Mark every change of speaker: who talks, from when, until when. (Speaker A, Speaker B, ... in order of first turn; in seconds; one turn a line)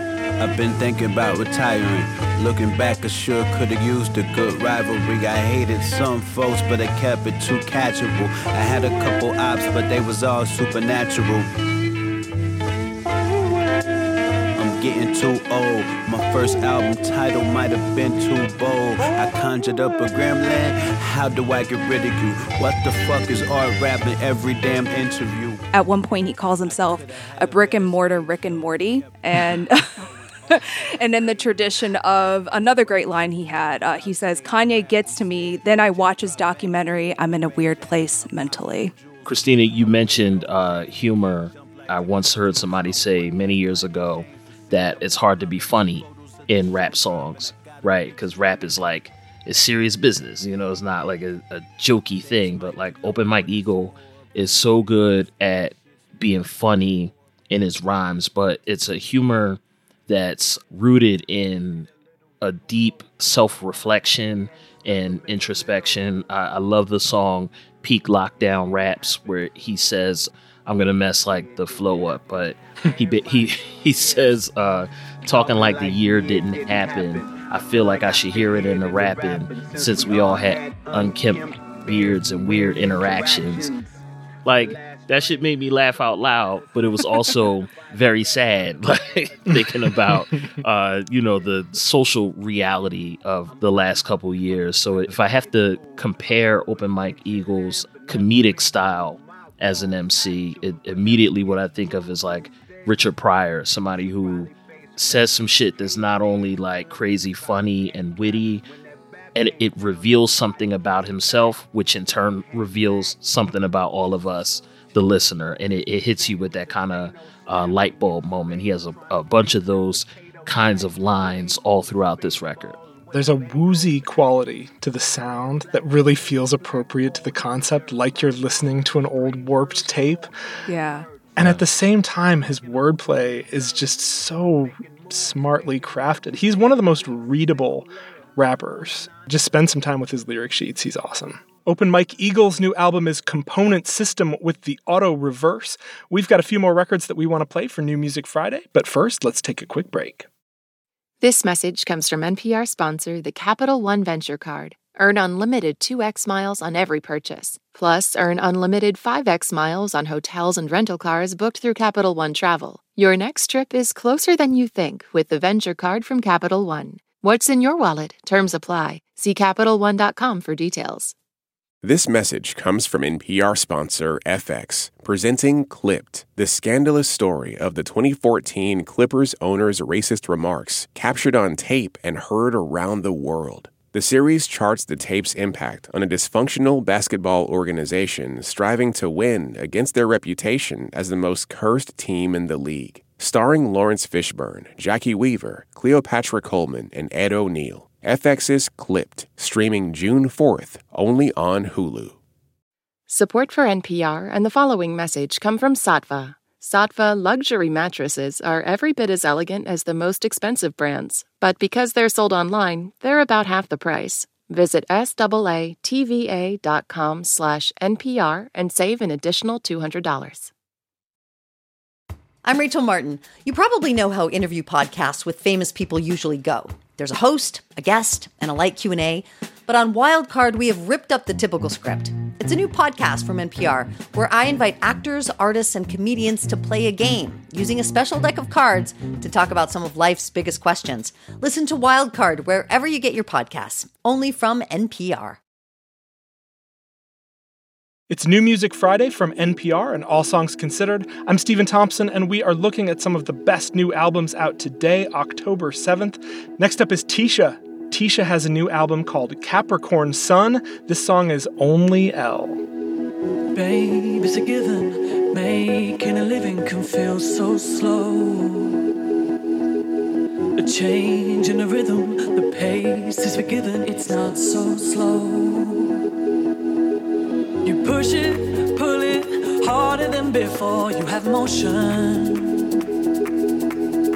Speaker A: 0.4-11.5
Speaker A: 14.6-25.6
Speaker B: 25.7-38.9
Speaker C: 39.2-61.9
Speaker C: 62.4-83.7
Speaker A: 75.3-77.5
Speaker A: 78.0-81.7
Speaker A: 82.7-83.8
Speaker C: 84.5-108.6
Speaker D: 89.5-90.6
Speaker C: 109.3-122.8
Speaker D: 123.1-130.3
Speaker B: 130.7-131.1
Speaker D: 131.4-150.3
Speaker C: 131.4-131.6
Speaker E: 151.2-171.2
Speaker F: 171.8-202.2
Speaker E: 203.1-220.5
Speaker G: 222.4-245.4
Speaker D: 248.1-262.6
Speaker H: 263.5-268.9
Speaker H: 270.6-276.0
Speaker H: 277.6-282.7